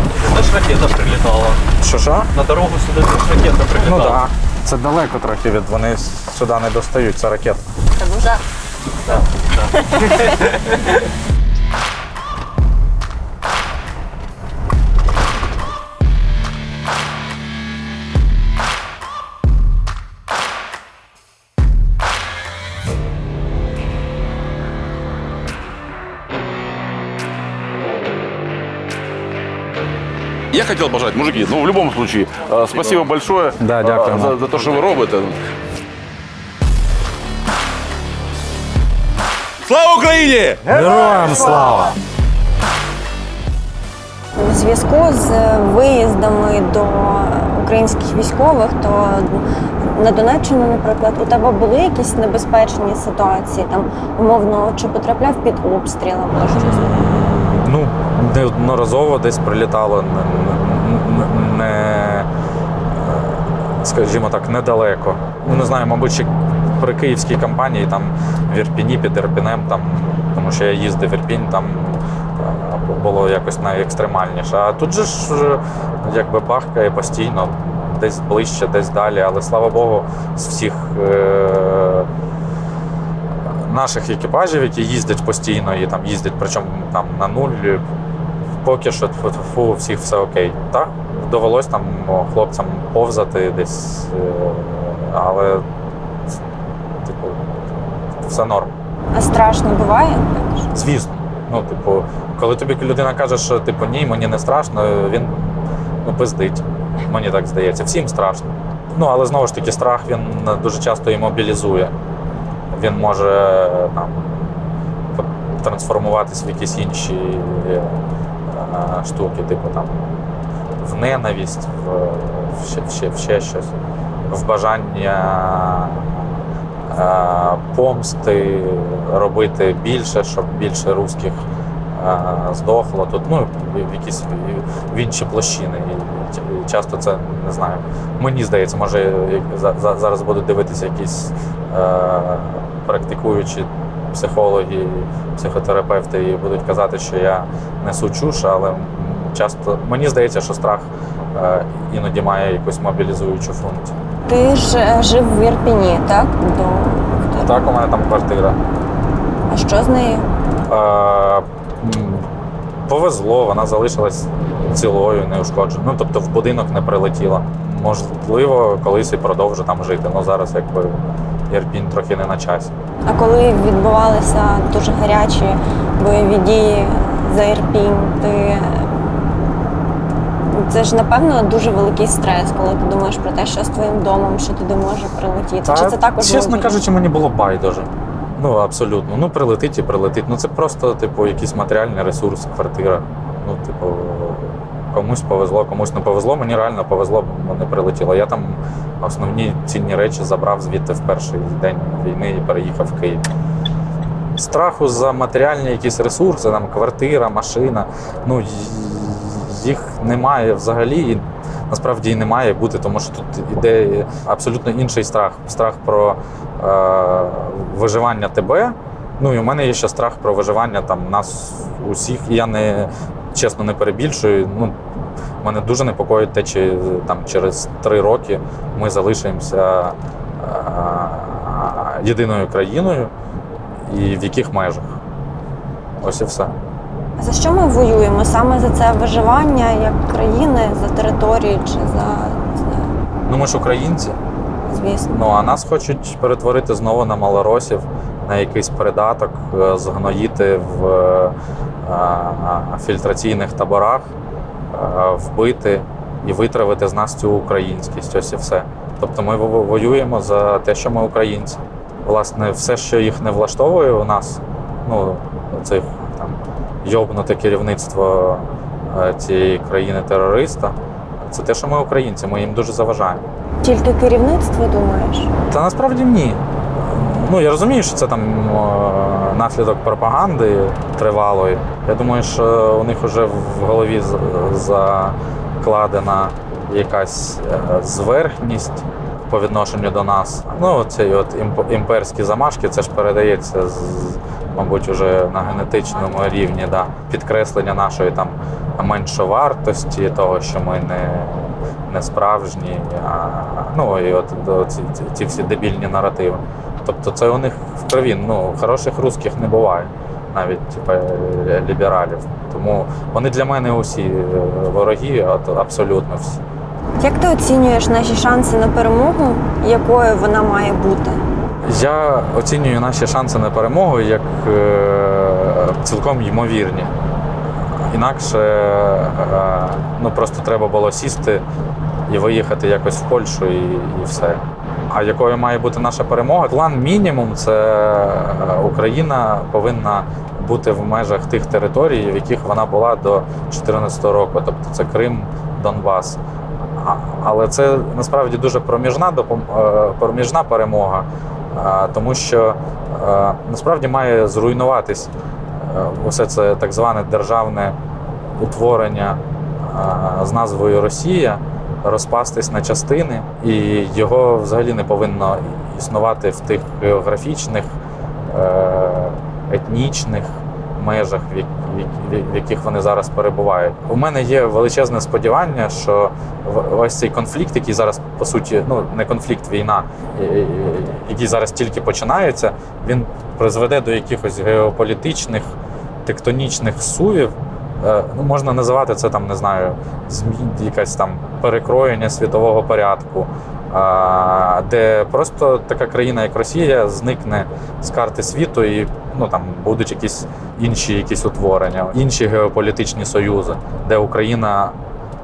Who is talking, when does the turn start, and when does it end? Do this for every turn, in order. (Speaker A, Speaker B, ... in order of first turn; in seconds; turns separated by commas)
Speaker A: 0.2-1.6, Speaker B: 1.8-2.3, Speaker A: 2.3-4.2, Speaker B: 3.8-7.6, Speaker C: 8.0-8.4, Speaker A: 9.1-10.9, Speaker D: 30.5-35.4, Speaker B: 33.6-34.4, Speaker D: 39.7-41.0, Speaker B: 40.7-41.9, Speaker C: 44.4-57.0, Speaker B: 56.5-62.3, Speaker B: 63.0-82.1, Speaker B: 83.7-87.8, Speaker B: 88.6-95.7, Speaker B: 97.0-97.6, Speaker B: 98.1-98.7, Speaker C: 99.1-100.7, Speaker B: 100.7-111.9, Speaker B: 112.7-120.2, Speaker B: 120.8-123.7, Speaker B: 124.3-126.3, Speaker B: 126.8-153.9, Speaker C: 154.3-157.5, Speaker B: 157.3-158.6, Speaker C: 159.5-160.3, Speaker B: 160.7-162.3, Speaker B: 162.9-172.7, Speaker C: 173.1-179.0, Speaker C: 180.5-186.8, Speaker B: 185.7-203.2, Speaker B: 204.4-224.8, Speaker B: 225.4-233.1, Speaker B: 233.9-235.0, Speaker B: 236.0-236.6, Speaker C: 237.2-242.9, Speaker B: 243.3-244.2, Speaker C: 244.7-245.1, Speaker B: 245.1-254.1, Speaker B: 254.7-273.2, Speaker C: 273.6-275.3, Speaker B: 275.5-316.4, Speaker C: 317.0-321.2, Speaker B: 321.6-326.9, Speaker B: 327.9-331.4, Speaker B: 332.1-346.2, Speaker B: 346.8-357.8, Speaker B: 358.4-367.8, Speaker B: 368.3-404.8